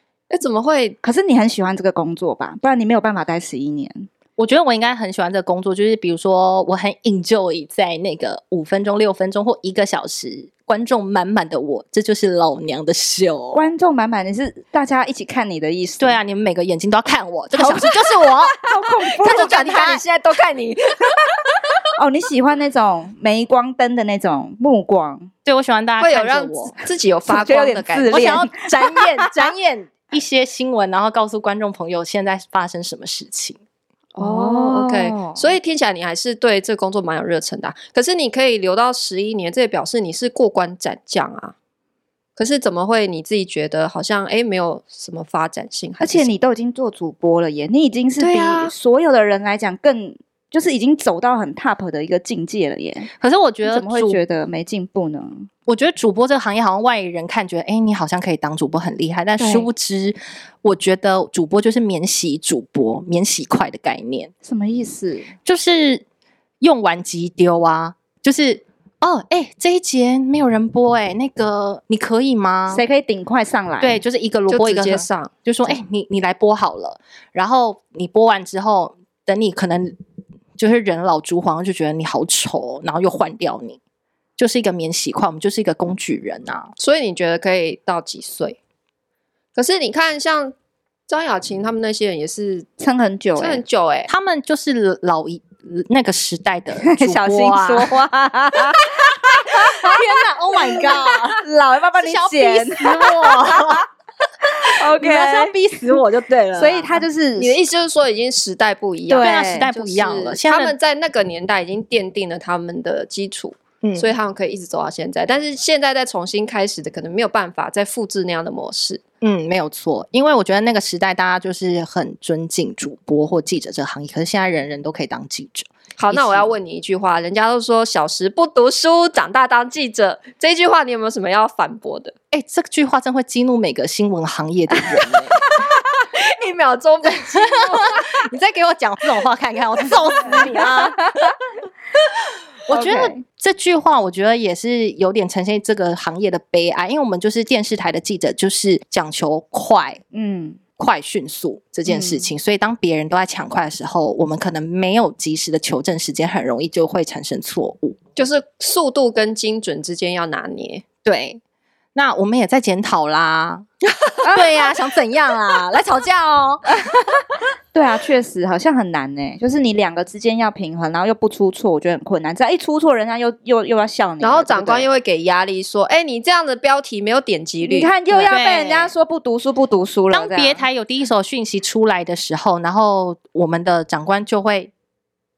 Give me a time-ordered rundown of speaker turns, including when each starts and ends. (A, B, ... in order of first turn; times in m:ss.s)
0:00.3-0:01.0 A
0:01.0-0:04.1 B
0:04.4-0:13.6 C
0:13.5-0:16.1 B
0:16.0-0:18.6 C
0:17.5-0:19.7 B
0:19.2-0:21.8 A
0:19.2-0:20.0 C
0:22.0-0:25.3 B
0:25.4-0:26.8 C
0:26.0-0:28.4 A
0:27.3-0:29.5 B
0:28.1-0:33.6 C
0:34.2-0:35.4 B
0:34.2-0:41.5 A
0:42.4-0:46.3 A
0:46.0-0:53.1 B
0:48.2-0:48.7 A
0:53.2-0:54.2 C
0:53.6-0:55.5 B
0:55.7-1:04.3 C
0:59.4-0:59.7 B
1:04.4-1:05.3 B
1:05.4-1:06.0 C
1:06.6-1:12.8 C
1:12.7-1:14.0 B
1:13.8-1:20.0 C
1:14.5-1:15.7 A
1:20.6-1:23.8 C
1:24.4-1:26.7 C
1:26.8-1:28.6 A
1:29.5-1:30.5 A
1:31.1-1:32.7 A
1:32.8-1:33.6 B
1:33.4-1:34.1 A
1:34.1-1:38.0 C
1:36.8-1:43.8 B
1:38.7-1:41.4 C
1:42.0-1:43.8 C
1:44.6-1:47.0 C
1:44.6-1:46.0 B
1:46.5-1:47.6 B
1:47.4-1:59.0 A
1:49.1-1:49.7 B
1:49.2-1:50.7 C
1:53.8-1:54.1 C
1:59.2-2:06.5 C
2:06.0-2:12.1 A
2:12.3-2:15.4 C
2:16.1-2:17.7 A
2:17.3-2:21.3 C
2:20.2-2:21.3 B
2:22.7-2:30.0 C
2:22.7-2:23.2 B
2:30.1-2:30.6 B
2:30.8-2:38.0 C
2:31.8-2:32.3 B
2:38.2-2:40.8 A
2:41.0-2:41.4 C
2:41.9-2:47.0 C
2:44.2-2:44.6 B
2:47.7-2:54.9 B
2:54.2-2:58.4 A
2:57.6-3:00.6 B
2:58.3-2:58.9 C
3:00.1-3:04.7 C